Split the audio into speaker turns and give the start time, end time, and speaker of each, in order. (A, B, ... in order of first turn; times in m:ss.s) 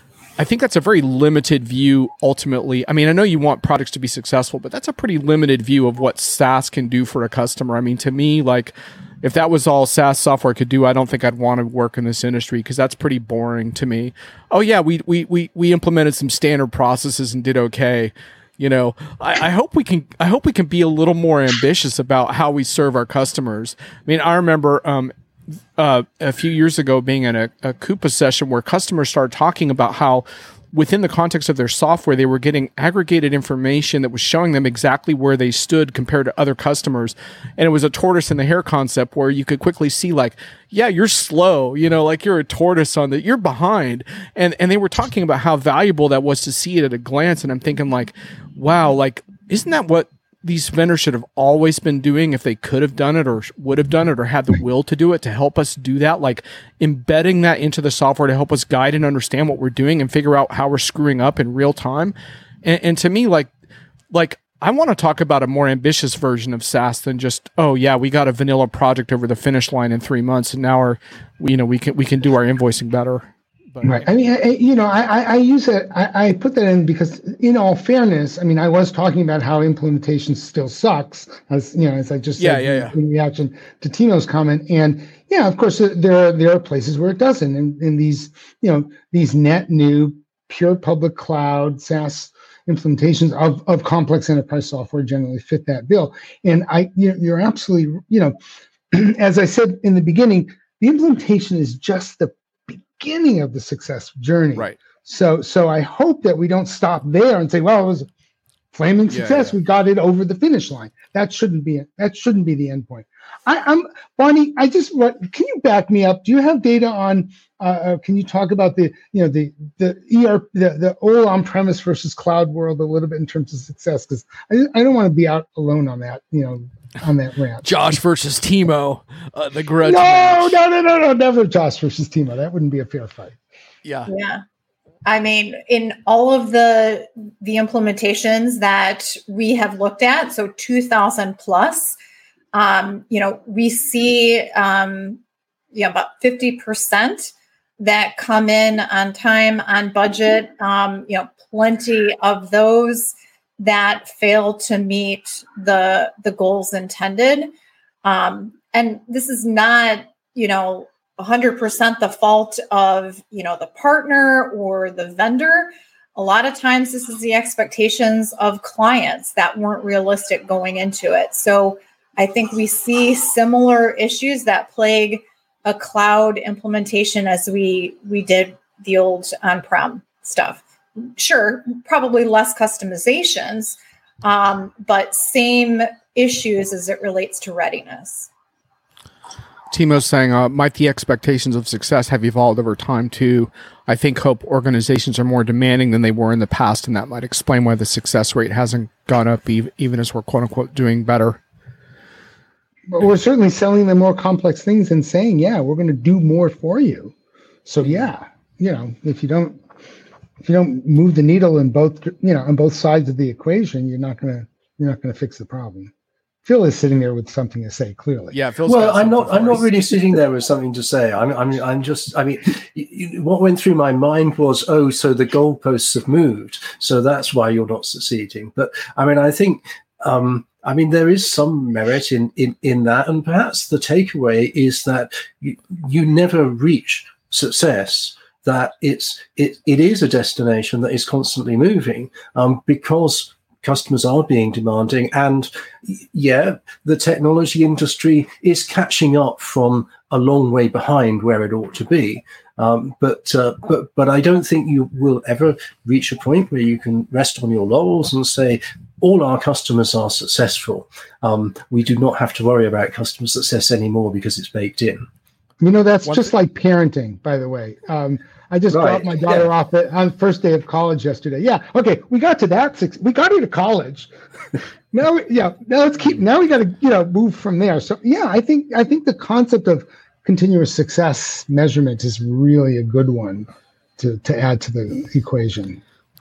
0:00.4-1:03.5 A
1:04.1-1:14.1 A
1:13.8-1:38.3 B
1:22.4-1:22.9 A
1:38.9-1:48.1 B
1:44.5-1:44.8 A
1:48.7-2:07.7 B
1:49.1-1:49.5 A
2:07.6-2:10.6 A
2:09.8-2:13.4 B
2:13.8-2:14.1 A
2:14.1-2:14.4 C
2:15.0-2:22.0 C
2:22.5-2:25.2 C
2:25.7-2:37.5 C
2:38.0-3:08.3 C
3:09.7-3:21.4 A
3:22.9-3:27.1 B
3:27.6-3:29.6 B
3:30.4-3:35.9 B
3:36.4-3:38.3 B
3:38.3-3:39.7 A
3:38.6-4:25.1 D
4:25.6-4:34.1 B
4:28.7-4:29.5 D
4:34.9-4:45.8 B